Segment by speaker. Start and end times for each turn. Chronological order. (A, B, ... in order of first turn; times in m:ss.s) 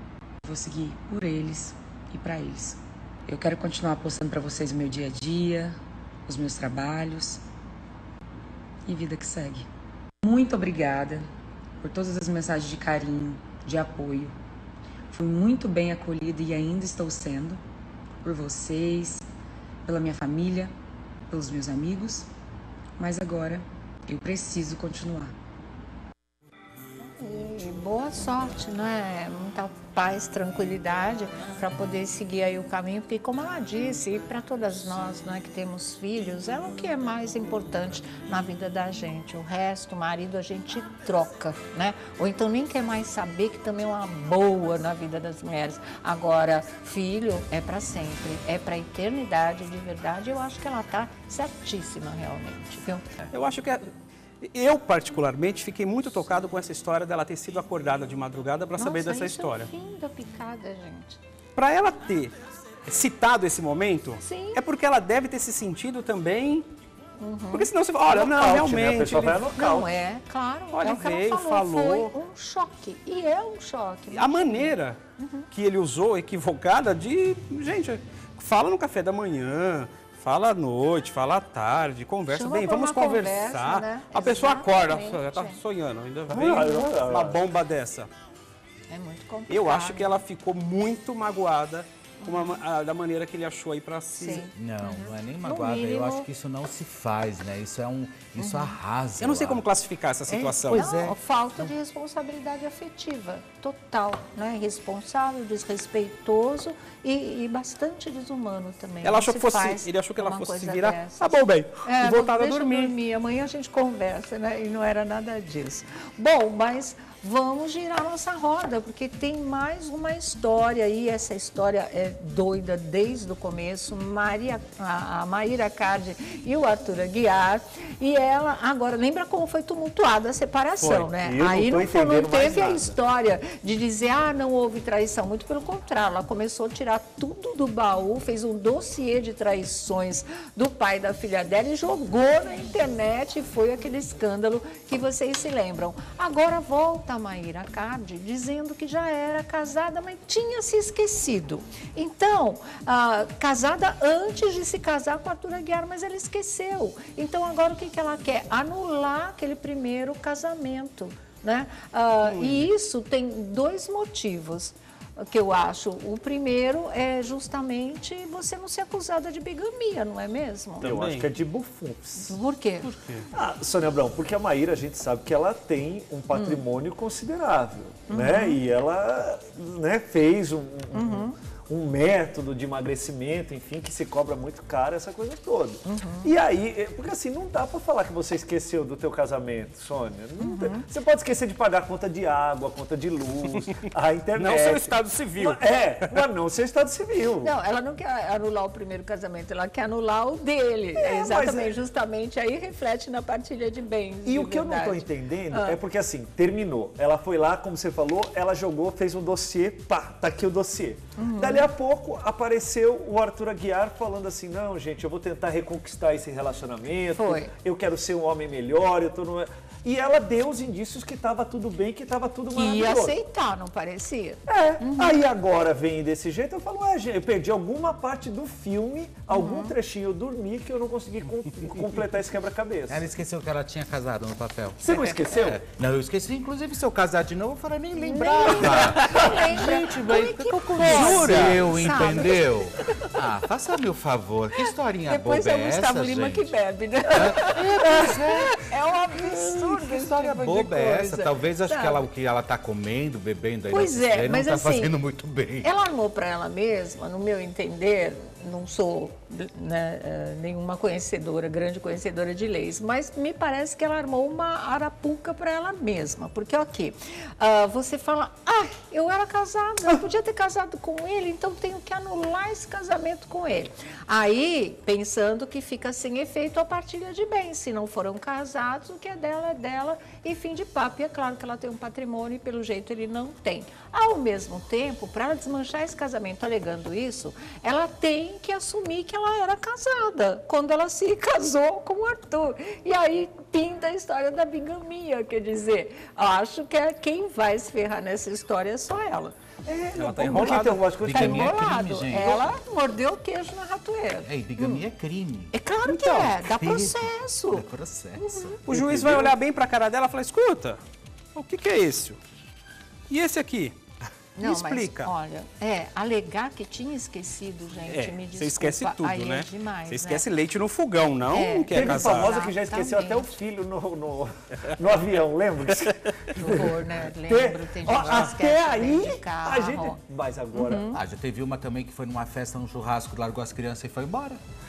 0:00.4-0:07.4 A
0:08.8-0:09.7 A
0:10.2-0:11.3 A
0:11.8-0:14.3 A
0:15.1-0:17.6 A
0:18.2-0:19.2 A
0:19.8-0:20.7 A
0:21.3-0:22.3 A
0:23.0-0:25.3 A
0:27.0-0:53.1 B
0:53.3-0:53.9 C
0:54.4-0:59.7 C
0:58.8-1:01.2 B
1:01.6-1:02.3 C
1:02.8-1:06.7 C
1:04.2-1:04.6 B
1:07.2-1:07.7 B
1:07.5-1:09.4 C
1:08.1-1:09.9 D
1:09.6-1:15.5 B
1:10.7-1:12.1 C
1:14.1-1:15.0 C
1:15.5-1:28.1 C
1:22.3-1:25.6 B
1:26.3-1:27.4 D
1:28.9-1:30.1 B
1:29.5-1:34.5 C
1:32.2-1:32.6 B
1:34.2-1:36.3 B
1:34.5-1:39.6 E
1:38.4-1:38.8 B
1:39.2-1:40.8 C
1:40.3-1:41.2 E
1:40.4-2:50.9 B
1:49.0-1:52.9 C
2:10.8-2:12.9 D
2:42.2-2:42.7 C
2:50.8-2:51.3 C
2:50.8-2:52.4 D
2:52.2-2:52.9 B
2:52.8-2:53.3 C
2:53.3-3:17.5 D
2:56.3-2:56.6 B
2:58.1-2:58.6 B
3:00.9-3:01.4 B
3:05.8-3:06.3 B
3:10.4-3:10.8 B
3:14.4-3:16.2 C
3:17.4-3:25.8 B
3:21.0-3:21.7 D
3:24.2-3:43.2 D
3:31.2-3:31.7 B
3:37.1-3:37.5 B
3:42.5-3:45.1 B
3:44.5-3:53.0 D
3:49.3-3:49.7 B
3:52.9-4:06.5 E
3:54.8-3:55.6 D
3:58.0-4:02.5 B
4:00.9-4:01.8 D
4:05.0-4:12.0 B
4:07.1-4:15.7 E
4:13.7-4:14.9 B
4:15.6-4:59.3 B
4:59.6-5:01.6 D
4:59.9-5:00.8 C
5:01.0-5:02.6 E
5:01.1-5:04.8 B
5:04.2-5:08.6 E
5:05.5-5:07.6 B
5:08.2-5:08.6 B
5:08.7-5:10.8 C
5:08.7-5:09.3 D
5:11.3-5:12.2 C
5:13.1-5:13.8 C
5:14.4-5:20.2 B
5:14.4-5:15.1 C
5:17.9-5:22.3 C
5:21.3-5:23.4 B
5:21.7-5:30.9 D
5:26.4-5:30.0 B
5:30.5-5:31.0 B
5:30.9-5:34.4 E